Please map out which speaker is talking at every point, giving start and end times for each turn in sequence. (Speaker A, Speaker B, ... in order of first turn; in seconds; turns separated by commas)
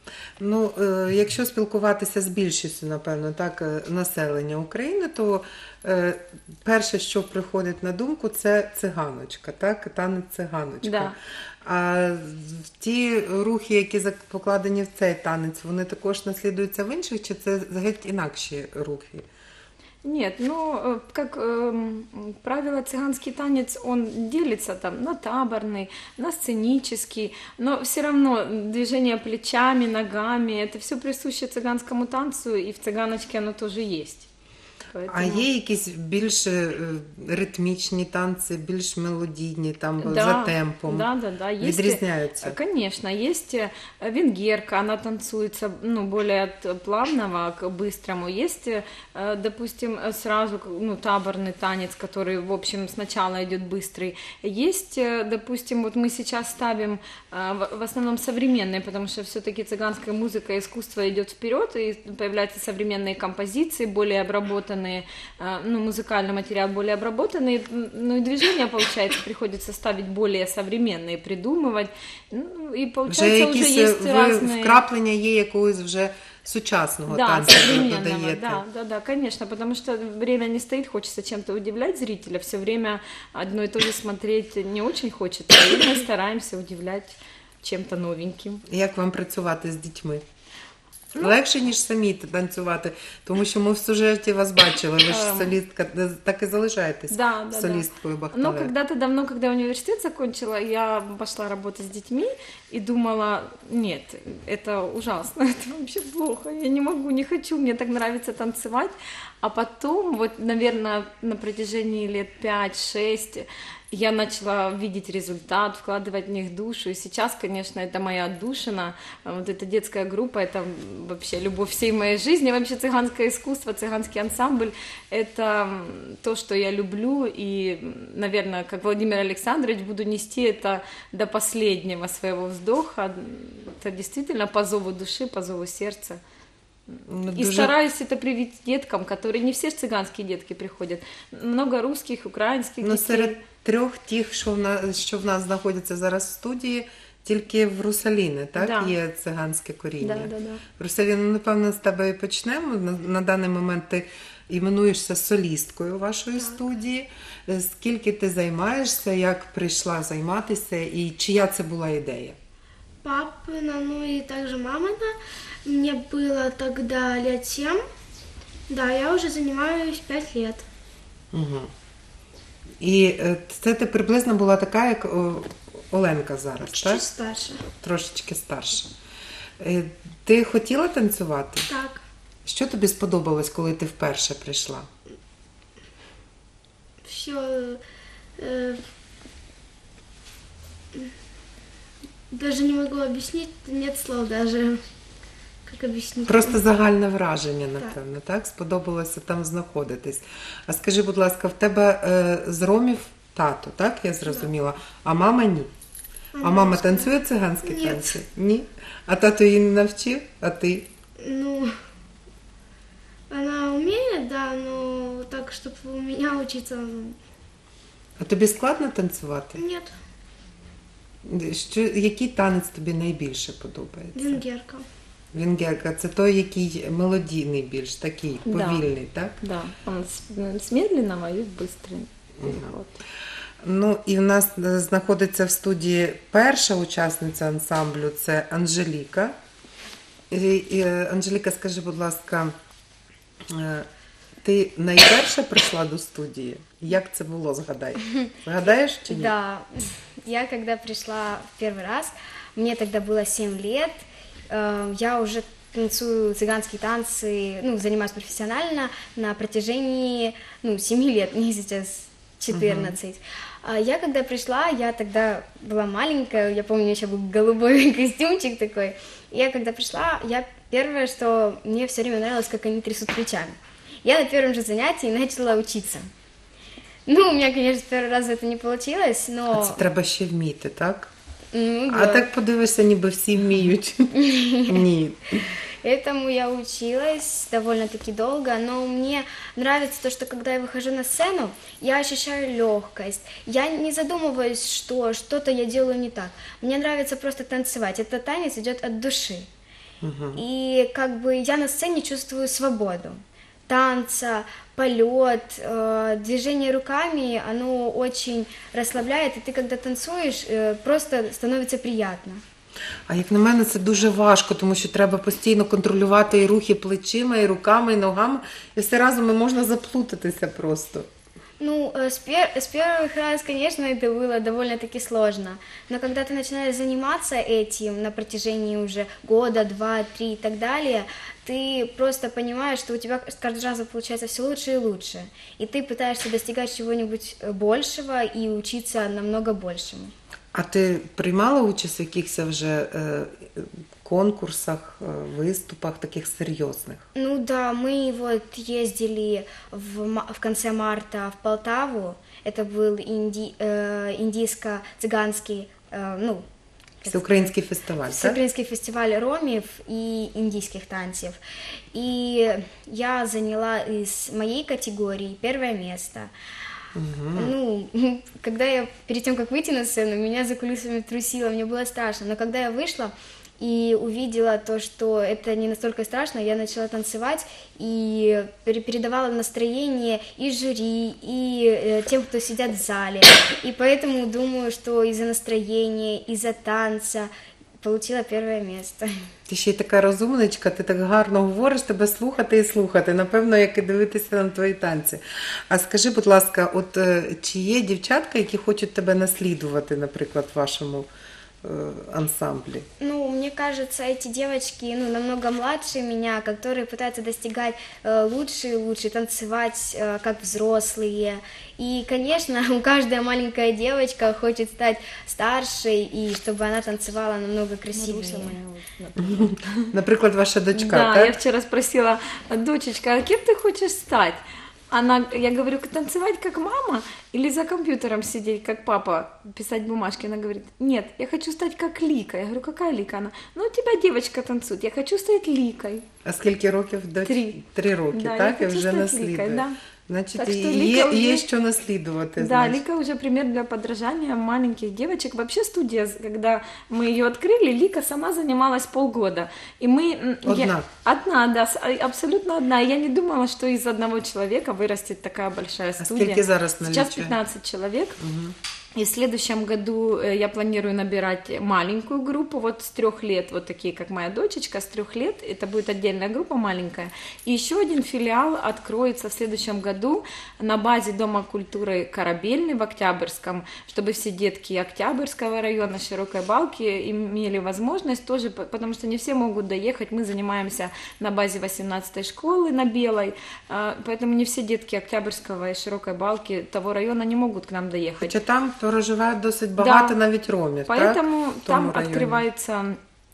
Speaker A: 0.4-19.2, Speaker B: 10.8-11.2, Speaker B: 20.0-34.3, Speaker B: 34.9-35.5, Speaker A: 35.1-41.1, Speaker B: 40.0-74.8, Speaker A: 41.6-42.6, Speaker A: 73.0-78.6, Speaker B: 77.1-88.6, Speaker A: 88.7-90.2, Speaker A: 91.2-98.7, Speaker B: 95.0-95.6, Speaker B: 97.1-136.2, Speaker B: 136.9-143.4, Speaker A: 137.1-137.7, Speaker A: 142.8-162.4, Speaker B: 148.6-148.9, Speaker B: 150.0-150.6, Speaker C: 156.4-156.7, Speaker C: 163.0-167.8, Speaker C: 168.7-170.7, Speaker A: 171.3-171.7, Speaker A: 172.8-177.0, Speaker C: 176.6-177.7, Speaker A: 177.8-178.9, Speaker A: 179.6-181.7, Speaker C: 181.6-182.0, Speaker A: 182.4-184.9, Speaker C: 187.0-187.8, Speaker C: 188.4-188.8, Speaker C: 192.3-194.8, Speaker C: 195.7-196.6, Speaker A: 196.2-205.7, Speaker C: 206.3-208.2, Speaker A: 206.4-210.9, Speaker C: 211.2-211.7, Speaker C: 213.3-217.2, Speaker A: 218.2-219.6, Speaker C: 219.6-219.9, Speaker A: 221.2-224.4, Speaker C: 224.1-224.8, Speaker A: 225.3-229.3, Speaker B: 228.4-228.9, Speaker B: 229.4-233.0, Speaker A: 232.4-232.7, Speaker A: 233.6-239.3, Speaker A: 240.3-242.5, Speaker A: 243.5-243.9, Speaker A: 244.4-249.3, Speaker D: 249.1-276.1, Speaker A: 262.5-262.9, Speaker D: 277.1-279.8, Speaker A: 279.5-281.1, Speaker D: 281.5-282.3, Speaker A: 281.9-285.5, Speaker D: 284.2-284.8, Speaker D: 285.8-299.5, Speaker A: 300.0-300.4, Speaker D: 300.3-312.4, Speaker A: 313.1-321.1, Speaker D: 321.6-340.1, Speaker A: 340.5-347.0, Speaker D: 347.1-356.4, Speaker D: 357.0-357.5, Speaker A: 357.1-358.4, Speaker D: 358.1-361.4, Speaker D: 361.9-366.3, Speaker A: 366.9-367.5, Speaker D: 367.3-389.1, Speaker A: 389.5-401.1, Speaker A: 401.6-402.9, Speaker D: 403.0-418.6, Speaker B: 417.9-419.9, Speaker A: 419.2-421.4, Speaker B: 420.7-436.0, Speaker A: 436.2-442.8, Speaker B: 437.2-439.8, Speaker B: 440.3-441.4, Speaker B: 442.4-458.2, Speaker A: 450.4-450.9, Speaker A: 456.0-457.4, Speaker A: 458.2-458.6, Speaker B: 458.9-488.3, Speaker A: 488.2-492.4, Speaker B: 489.8-490.2, Speaker B: 490.9-493.0